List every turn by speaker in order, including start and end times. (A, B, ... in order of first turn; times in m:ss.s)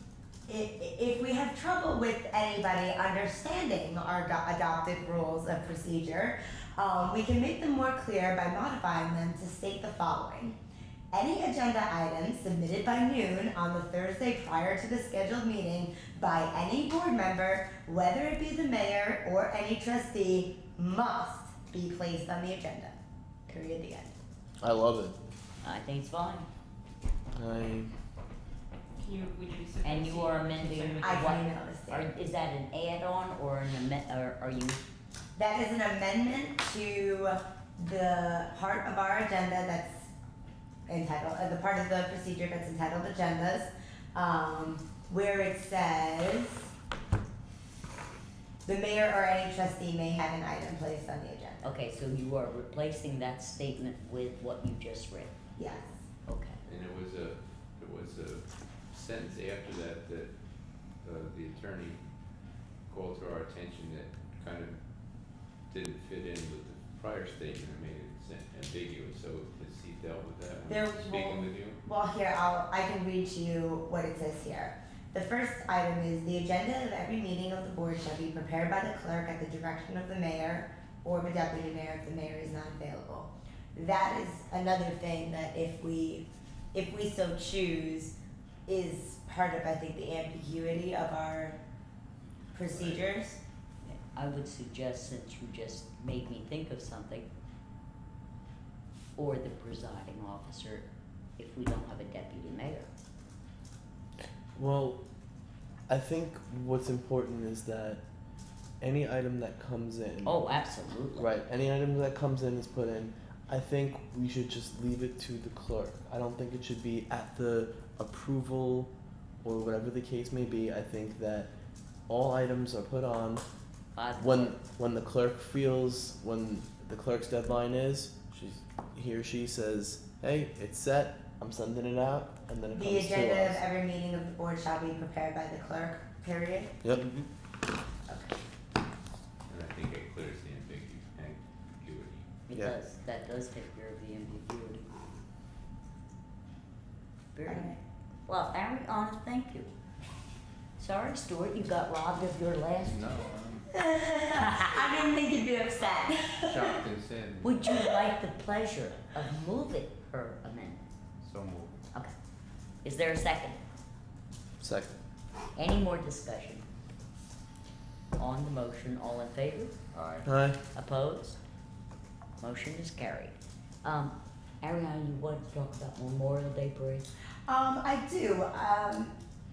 0:00.5-0:10.6 A
0:11.1-0:23.0 A
0:23.5-0:24.1 A
0:24.6-0:25.2 B
0:25.6-0:26.5 C
0:27.4-0:27.9 B
0:29.0-0:31.4 D
0:29.8-0:34.8 C
0:31.0-0:32.1 A
0:35.4-0:40.1 A
0:40.9-0:46.7 A
0:48.6-0:51.7 A
0:51.6-0:55.4 C
0:55.6-0:56.0 A
0:56.3-0:56.6 C
0:56.6-1:00.3 E
1:01.0-1:02.0 E
1:02.9-1:04.8 E
1:05.7-1:11.8 E
1:10.7-1:28.1 A
1:28.7-1:31.6 A
1:32.5-1:33.4 A
1:32.7-1:33.0 E
1:33.8-1:37.3 C
1:39.2-1:42.9 C
1:44.5-1:45.0 B
1:45.9-1:48.0 B
1:48.8-1:50.4 B
1:50.2-1:51.3 C
1:51.1-1:58.9 B
1:59.4-2:01.5 B
2:02.1-2:03.4 B
2:03.9-2:04.5 C
2:04.1-2:13.6 B
2:12.7-2:16.8 A
2:16.9-2:17.3 C
2:18.1-2:18.3 A
2:19.5-2:22.3 E
2:22.5-2:24.9 C
2:27.3-2:27.8 C
2:27.5-2:27.8 A
2:28.3-2:29.7 C
2:30.8-2:33.0 C
2:32.9-2:33.7 E
2:33.7-2:36.7 A
2:34.4-2:34.6 C
2:36.3-2:37.5 E
2:37.4-2:40.8 C
2:37.7-2:37.9 A
2:41.2-2:41.9 E
2:42.8-2:43.6 C
2:44.6-2:45.0 B
2:45.6-2:46.6 C
2:48.2-2:49.7 C
2:50.2-2:50.6 B
2:50.7-2:51.4 C
2:52.4-2:57.1 C
2:57.5-2:59.1 A